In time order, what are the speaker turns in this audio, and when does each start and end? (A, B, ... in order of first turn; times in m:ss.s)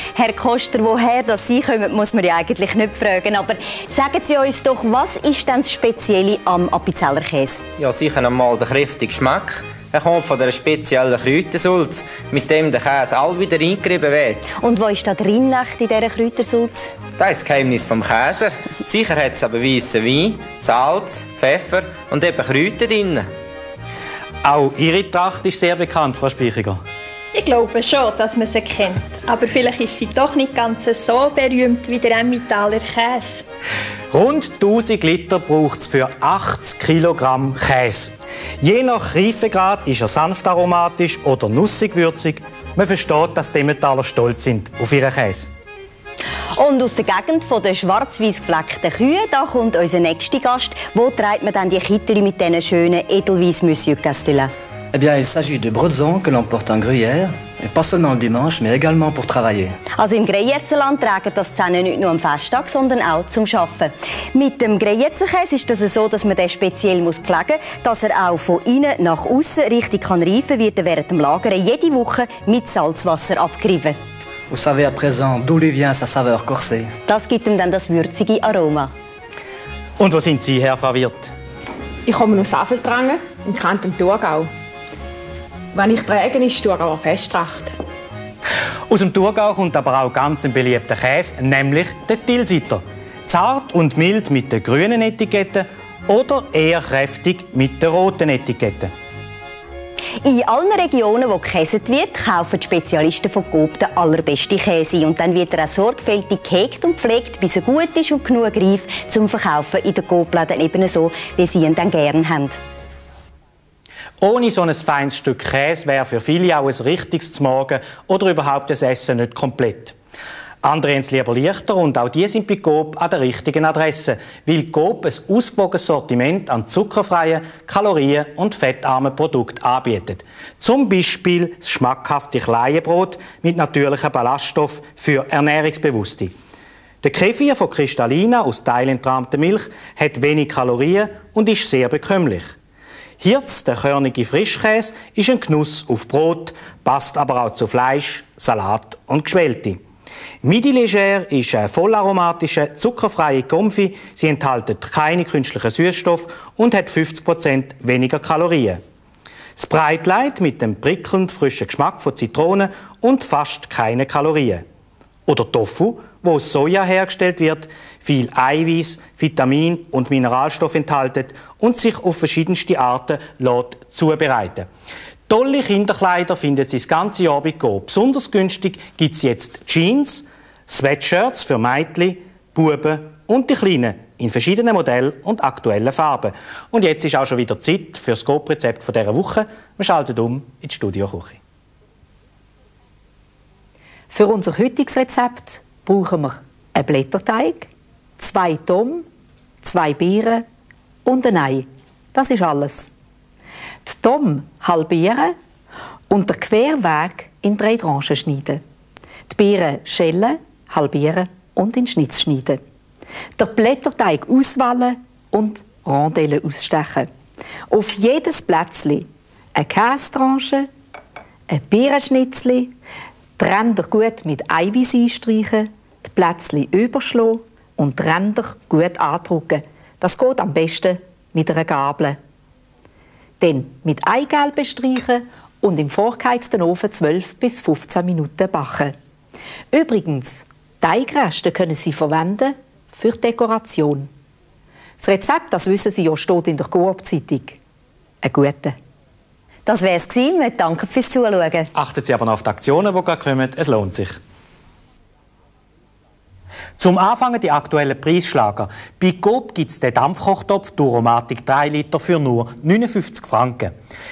0:00.2-0:07.6 A
0:07.8-0:14.5 B
0:14.5-0:16.9 A
0:17.2-0:23.2 B
0:24.4-0:26.8 C
0:27.3-0:33.4 D
0:34.1-0:45.5 C
0:46.6-0:54.5 A
0:54.9-0:59.8 E
1:00.0-1:14.0 A
1:14.5-1:16.9 E
1:17.1-1:18.9 A
1:20.0-1:21.3 C
1:22.1-1:24.5 F
1:25.7-1:27.7 F
1:28.9-1:38.9 C
1:40.2-1:52.5 A
1:54.2-1:59.9 C
2:00.6-2:16.3 C
2:17.0-2:22.6 C
2:23.2-2:29.8 C
2:30.4-2:38.8 C
2:39.6-2:44.6 C
2:45.3-2:54.7 C
2:55.3-3:11.4 C
3:14.1-3:19.0 G
3:19.6-3:20.4 G
3:21.0-3:22.9 G
3:23.8-3:25.3 G
3:26.1-3:28.6 G
3:29.3-3:32.6 G
3:33.4-3:37.1 G
3:37.7-3:40.7 G
3:41.5-3:42.7 G
3:43.4-3:52.2 G
3:53.4-3:58.9 G
3:59.7-4:04.1 G
4:05.0-4:07.6 G
4:08.2-4:08.7 G
4:09.7-4:11.7 A
4:11.7-4:14.2 C
4:16.8-4:23.7 C